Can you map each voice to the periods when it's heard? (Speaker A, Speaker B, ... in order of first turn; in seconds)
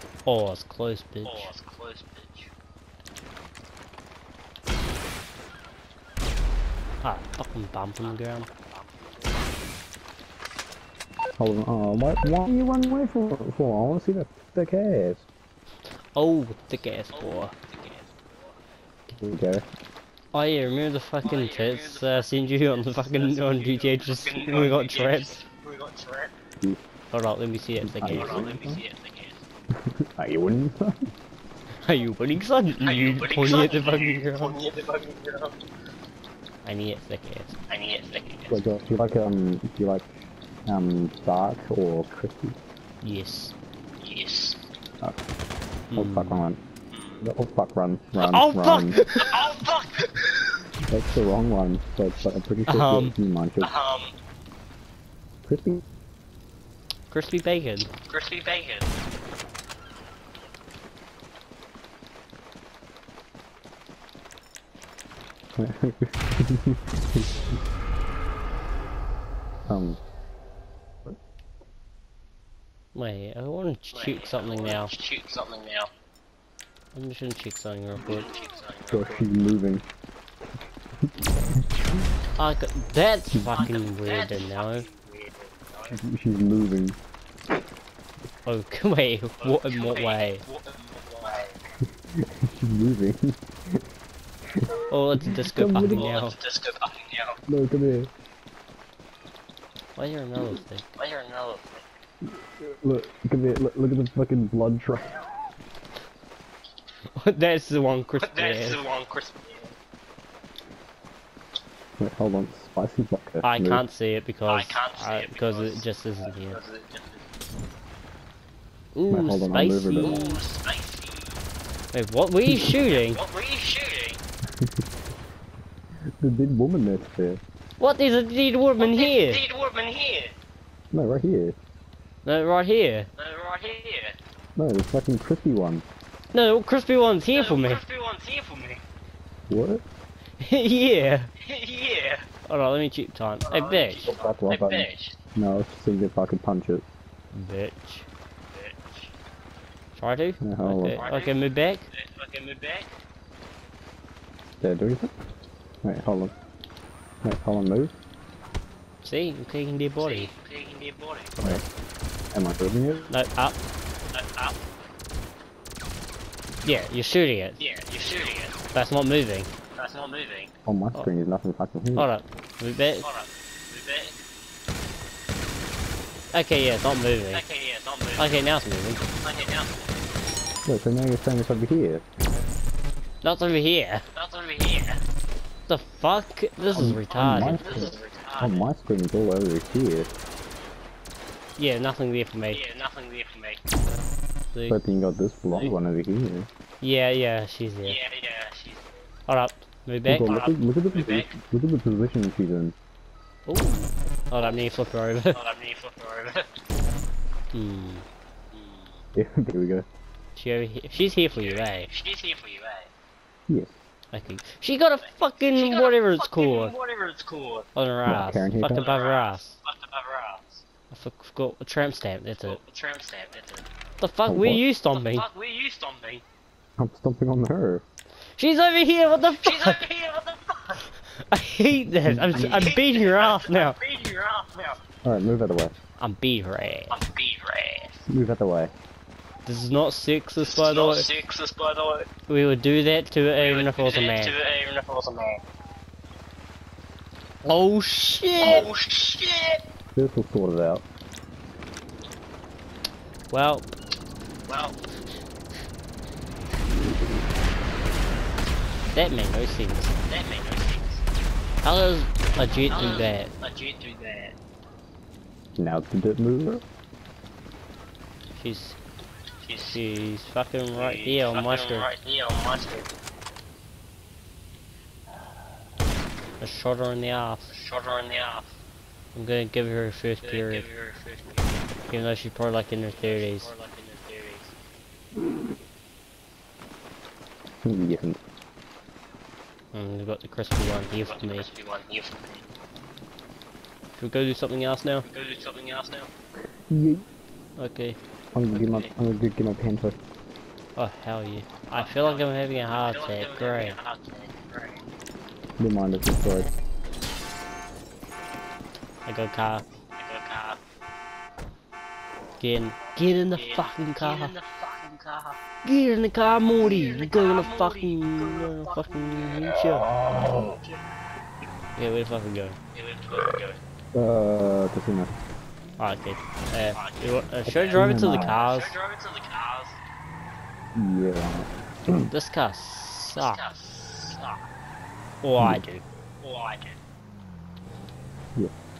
Speaker A: 0.3-1.5, 7.0-8.5, 16.2-17.5, 20.3-25.4, 27.1-28.7, 31.8-34.6, 36.6-37.6, 43.0-43.5, 45.9-46.4, 48.2-49.5, 52.7-53.1, 57.1-57.9, 73.0-74.9, 76.9-78.3, 82.4-84.9, 88.5-90.4, 94.9-96.4, 100.0-100.8, 107.2-108.8, 113.4-116.6, 119.0-120.4, 121.9-123.2, 127.8-129.4, 132.2-133.1, 136.3-137.8, 140.4-141.3, 142.5-144.1, 147.3-148.1, 150.0-151.9, 159.0-160.3, 161.4-161.7, 163.1-163.6, 166.7-167.6, 168.7-169.5, 172.0-173.1, 176.3-177.4, 178.2-179.1, 183.2-184.0, 185.7-187.6, 191.6-192.6, 194.5-194.8, 196.8-198.0, 199.3-200.4, 203.5-205.4, 207.5-208.1, 210.4-211.9, 214.1-216.7, 217.8-219.6, 220.9-222.6, 224.0-225.3, 228.4-229.8, 231.2-233.8, 236.0-237.0, 239.5-241.1, 242.3-244.4, 247.4-248.7, 253.3-253.7, 258.9-259.9, 261.6-263.3, 268.4-268.8, 269.7-271.9, 276.4-277.5, 279.1-280.7, 281.9-283.5, 289.7-291.5, 294.0-295.1, 297.6-298.0, 300.8-303.8, 309.1-309.7, 312.4-314.4, 315.6-319.9, 321.8-322.6, 325.8-328.8, 332.1-333.4, 335.2-335.8
Speaker B: 1.2-2.5, 8.0-9.6, 17.1-18.6, 21.2-26.4, 28.0-29.4, 32.8-35.6, 37.7-38.7, 44.0-44.6, 46.9-47.2, 49.1-50.7, 53.6-54.1, 58.1-59.0, 73.9-75.9, 78.0-79.3, 83.5-86.0, 89.4-91.6, 95.8-97.4, 101.0-101.9, 108.2-109.8, 114.5-117.3, 120.0-121.4, 122.9-124.2, 128.8-130.4, 133.2-134.2, 137.3-138.8, 141.4-142.3, 143.4-145.2, 148.5-149.1, 150.9-152.9, 160.0-161.4, 164.1-164.6, 167.6-168.7, 169.8-170.5, 173.0-174.2, 177.3-178.5, 179.2-180.0, 184.2-185.0, 186.6-188.7, 192.5-193.6, 197.8-199.1, 200.3-201.3, 205.3-206.5, 208.5-209.0, 211.4-212.9, 215.0-217.7, 218.8-220.6, 222.4-223.7, 224.9-226.2, 229.4-230.8, 232.3-234.8, 236.9-238.1, 240.4-242.1, 243.4-245.4, 248.4-249.6, 254.4-254.8, 260.0-261.1, 262.7-264.4, 269.4-270.0, 270.7-272.9, 277.5-278.6, 280.2-281.9, 282.9-284.6, 291.0-292.4, 295.0-296.1, 298.5-298.9, 301.7-304.9, 310.0-310.6, 312.8-315.4, 316.6-320.9, 322.7-323.6, 326.8-329.8, 333.1-334.4, 336.2-336.8
Speaker C: 11.4-15.3, 19.1-19.7, 27.8-28.8, 29.7-31.1, 38.5-40.1, 40.7-42.6, 46.0-46.6, 47.2-49.0, 50.9-53.7, 55.4-55.8, 65.6-67.3, 69.7-70.0, 78.9-79.8, 81.1-81.6, 83.3-83.7, 85.9-87.0, 92.1-93.9, 94.5-96.1, 97.5-98.1, 102.2-105.3, 112.0-113.8, 119.1-120.2, 122.5-122.8, 126.2-127.4, 130.9-131.6, 134.6-135.8, 139.5-139.8, 144.1-146.8, 150.4-151.0, 154.6-155.1, 155.8-156.3, 157.2-157.9, 162.3-163.1, 170.7-172.1, 180.7-182.1, 186.8-190.1, 194.7-196.5, 200.1-202.8, 209.1-209.9, 213.5-213.8, 218.1-218.9, 224.3-224.6, 226.8-227.8, 232.1-232.6, 235.0-235.8, 238.1-238.7, 249.9-250.8, 265.6-266.6, 287.6-288.2, 296.7-297.1, 298.3-300.0, 305.6-306.5, 323.9-325.1, 327.5-328.4, 330.7-332.1, 335.4-335.6